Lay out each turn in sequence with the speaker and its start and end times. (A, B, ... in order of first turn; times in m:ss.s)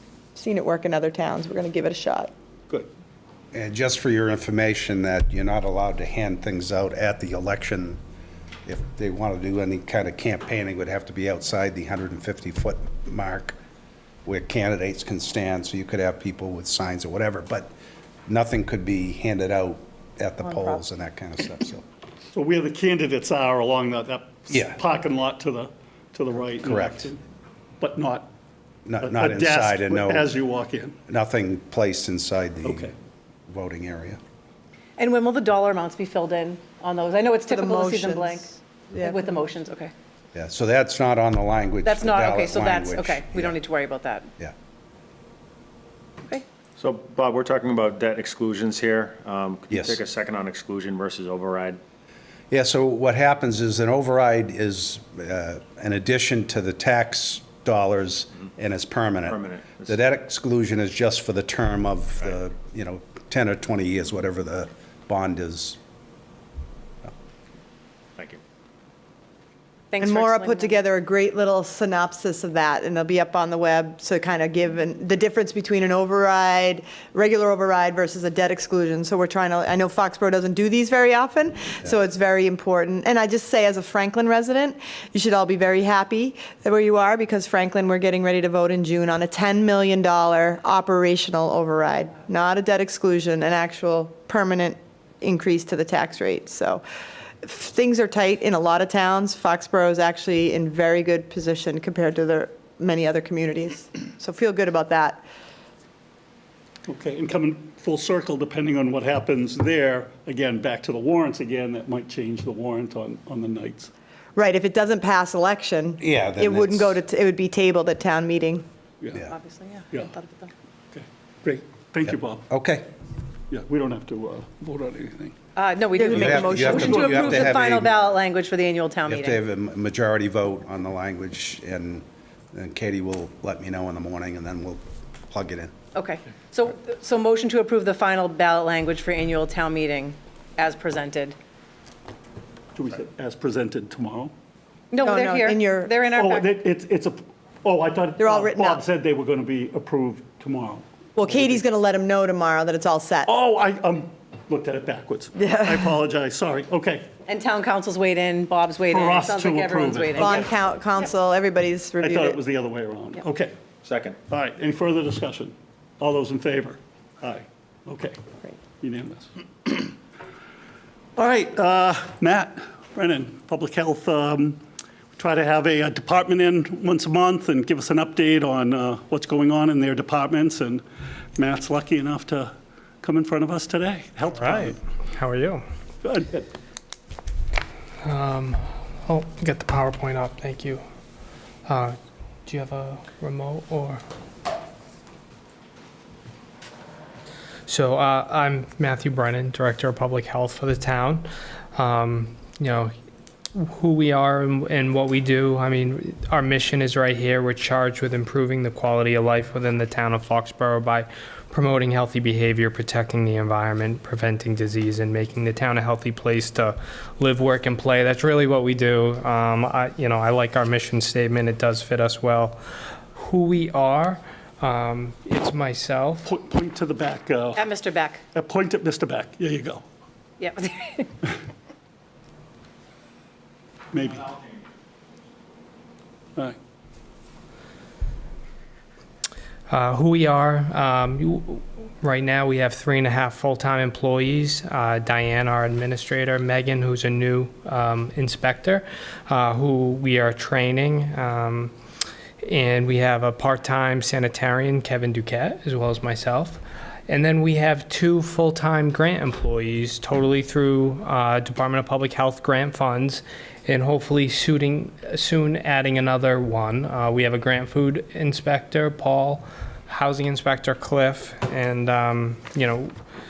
0:00.3-0:02.3 A
0:03.5-0:08.0 B
0:08.6-0:13.6 B
0:14.2-0:17.7 B
0:18.2-0:21.8 B
0:22.3-0:27.2 C
0:24.5-0:24.8 B
0:26.6-0:27.1 B
0:27.8-0:28.3 C
0:28.8-0:30.3 B
0:29.0-0:31.0 C
0:31.1-0:32.9 B
0:32.6-0:32.9 C
0:33.5-0:34.2 B
0:35.0-0:39.9 D
0:37.5-0:39.2 A
0:40.3-0:43.6 B
0:41.8-0:44.3 D
0:46.8-0:51.8 E
0:49.7-0:50.0 B
0:52.5-1:05.8 B
0:59.2-1:00.0 E
1:08.2-1:08.4 E
1:09.9-1:10.8 D
1:10.0-1:36.8 A
1:37.4-1:45.2 A
1:46.8-1:53.9 C
1:54.4-1:58.6 A
1:56.0-1:57.0 B
1:59.3-2:00.5 D
2:00.9-2:02.4 C
2:02.1-2:02.9 B
2:03.5-2:05.4 C
2:05.5-2:09.4 D
2:05.9-2:07.3 A
2:06.1-2:07.6 C
2:06.2-2:07.9 B
2:09.1-2:15.7 B
2:15.9-2:21.4 D
2:22.7-2:24.3 C
2:24.9-2:26.5 D
2:25.0-2:26.0 A
2:26.1-2:31.6 C
2:28.2-2:28.8 A
2:31.1-2:33.3 A
2:33.2-2:37.1 C
2:35.4-2:36.0 A
2:37.2-2:40.5 D
2:38.9-2:40.4 C
2:40.2-2:42.4 A
2:42.0-2:43.5 C
2:43.8-2:44.2 E
2:44.3-2:48.2 C
2:48.8-2:49.9 C
2:51.2-2:54.6 C
2:55.2-3:00.8 C
3:01.4-3:04.8 C
3:04.4-3:05.6 F
3:06.0-3:06.5 C
3:08.0-3:10.8 F
3:11.6-3:14.0 F
3:17.6-3:22.9 F
3:23.5-3:42.6 F
3:43.1-3:46.3 F
3:46.2-3:47.7 C
3:47.6-3:48.2 D
3:48.3-3:49.8 C
3:50.4-3:51.1 D
3:53.9-3:54.4 C
3:59.7-4:11.7 F
4:12.4-4:32.9 F